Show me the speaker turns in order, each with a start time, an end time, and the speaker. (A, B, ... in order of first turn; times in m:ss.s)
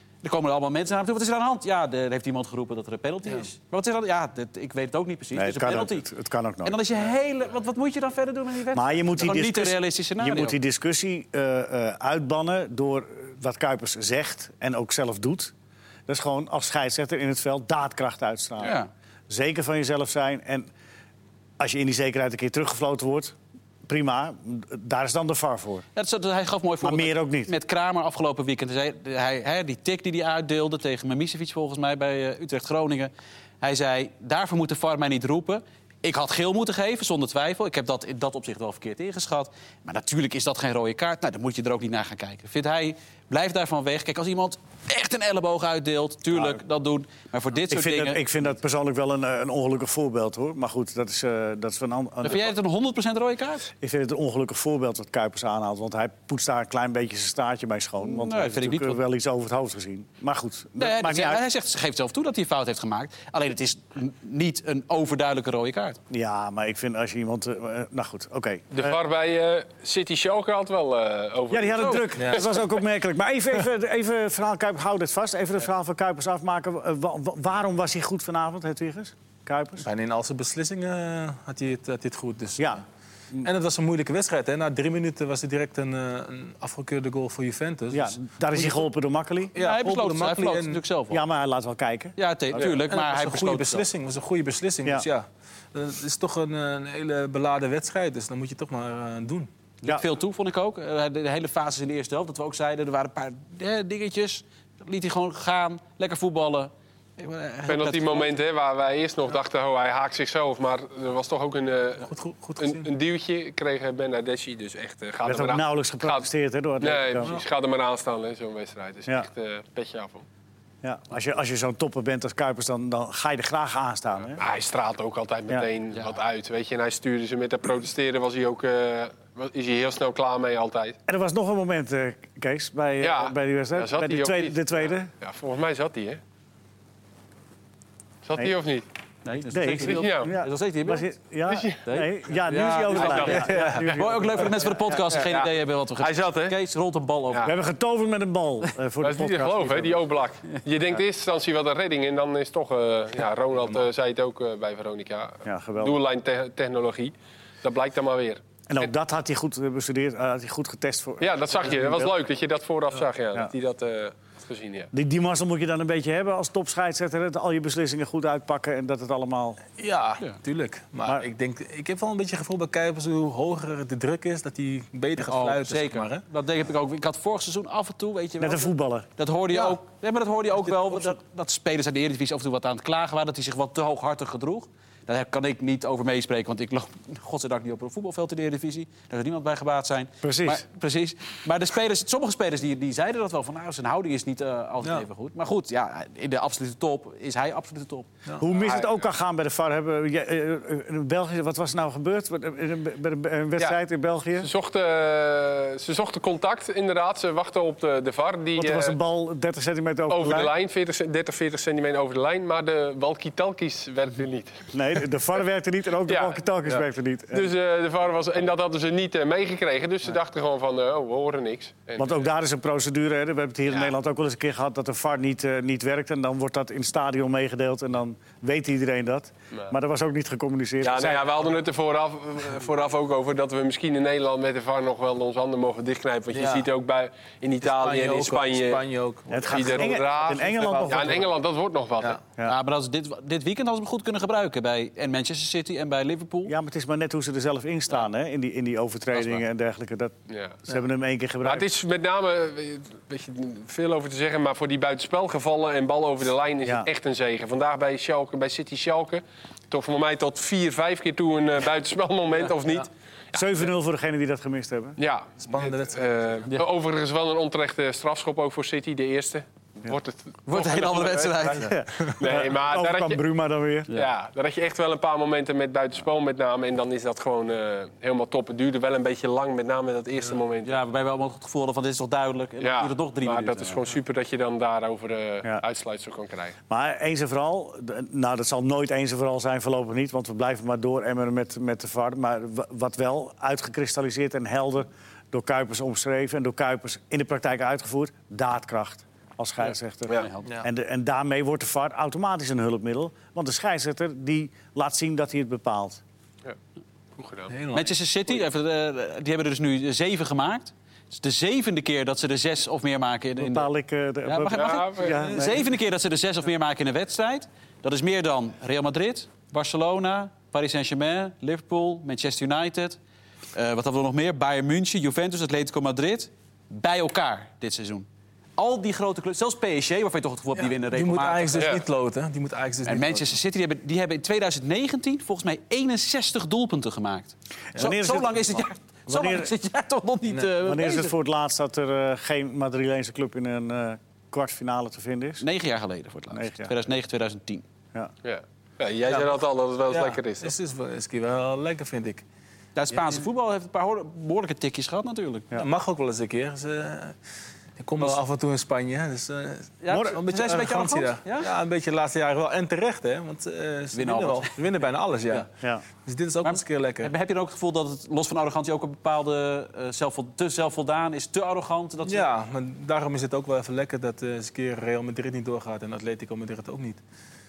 0:00.2-0:06.1 A
0:05.3-0:06.8 B
0:06.6-0:10.6 A
0:08.7-0:15.5 B
0:16.1-0:18.8 B
0:18.6-0:18.9 A
0:19.3-0:20.7 B
0:21.6-0:25.8 B
0:26.0-0:48.2 A
0:26.8-0:27.5 B
0:46.3-0:46.6 B
0:47.7-0:52.5 B
0:52.2-0:53.7 A
0:53.8-1:01.4 B
0:58.0-0:59.0 A
1:00.8-1:06.0 A
1:06.1-1:09.0 B
1:08.7-1:12.4 C
1:11.5-1:19.9 B
1:12.2-1:12.4 D
1:19.8-1:22.8 D
1:22.6-1:23.5 B
1:23.4-1:28.9 D
1:27.9-1:29.5 B
1:29.5-1:30.8 D
1:29.6-1:31.2 A
1:31.1-1:32.8 B
1:32.2-1:33.9 A
1:32.5-1:39.5 D
1:39.8-1:48.3 A
1:47.7-1:56.2 C
1:52.0-1:52.9 D
1:55.2-1:57.4 B
1:56.8-2:00.2 C
2:00.8-2:04.4 B
2:04.4-2:11.0 C
2:11.1-2:15.1 B
2:13.0-2:16.2 C
2:18.2-2:18.8 C
2:19.2-2:21.0 A
2:19.5-2:24.7 B
2:19.8-2:20.3 C
2:21.5-2:21.8 C
2:21.8-2:27.5 A
2:22.9-2:23.7 C
2:23.5-2:23.8 D
2:24.9-2:26.6 C
2:27.4-2:30.1 B
2:29.0-2:38.9 C
2:35.4-2:36.0 B
2:38.7-2:42.1 B
2:41.2-2:44.9 C
2:44.9-2:49.6 B
2:49.8-2:56.2 D
2:55.2-3:18.1 A
2:58.4-2:59.1 B
2:59.5-2:59.8 D
3:00.7-3:01.2 D
3:10.2-3:10.6 B
3:18.4-3:24.5 B
3:18.5-3:19.0 C
3:24.4-3:29.0 C
3:28.6-3:30.5 B
3:30.1-3:34.6 C
3:34.7-3:37.5 B
3:36.1-3:36.4 C
3:37.3-3:42.3 C
3:42.0-3:51.4 B
3:50.8-3:58.8 C
3:56.3-3:56.7 D
3:57.6-4:01.3 D
3:59.3-4:01.3 B
3:59.5-4:02.2 C
4:02.4-4:06.5 A
4:06.4-4:10.1 B
4:09.1-4:09.4 A
4:10.3-4:10.6 C
4:10.6-4:11.7 B
4:11.4-4:23.7 C
4:16.6-4:16.9 B
4:23.3-4:25.0 B
4:25.0-4:33.2 C
4:25.4-4:26.4 D
4:30.5-4:31.8 A
4:31.6-4:33.9 B
4:33.9-4:40.8 C
4:40.6-4:43.8 A
4:42.6-4:46.6 C
4:46.7-5:06.0 B
5:00.1-5:00.5 A
5:07.2-5:07.5 C
5:07.5-5:08.4 D
5:07.7-5:13.7 A
5:13.4-5:15.6 B
5:14.2-5:23.0 A
5:14.5-5:15.2 C
5:15.1-5:15.5 D
5:23.5-5:28.0 A
5:28.6-5:31.7 A
5:30.6-5:33.4 D
5:31.6-5:31.8 C
5:32.8-5:41.1 A
5:37.7-5:39.5 B
5:40.3-5:40.5 D
5:40.6-5:45.4 B
5:45.4-5:47.6 A
5:46.3-5:46.7 B
5:48.2-5:50.5 C
5:49.1-5:52.2 D
5:52.8-5:55.5 A
5:52.9-5:53.2 D
5:55.5-5:57.2 D
5:57.8-6:05.5 D
5:59.8-6:01.5 A
5:59.9-6:00.2 B
6:03.9-6:04.6 A
6:06.0-6:07.1 D
6:06.4-6:12.3 A
6:12.0-6:17.0 D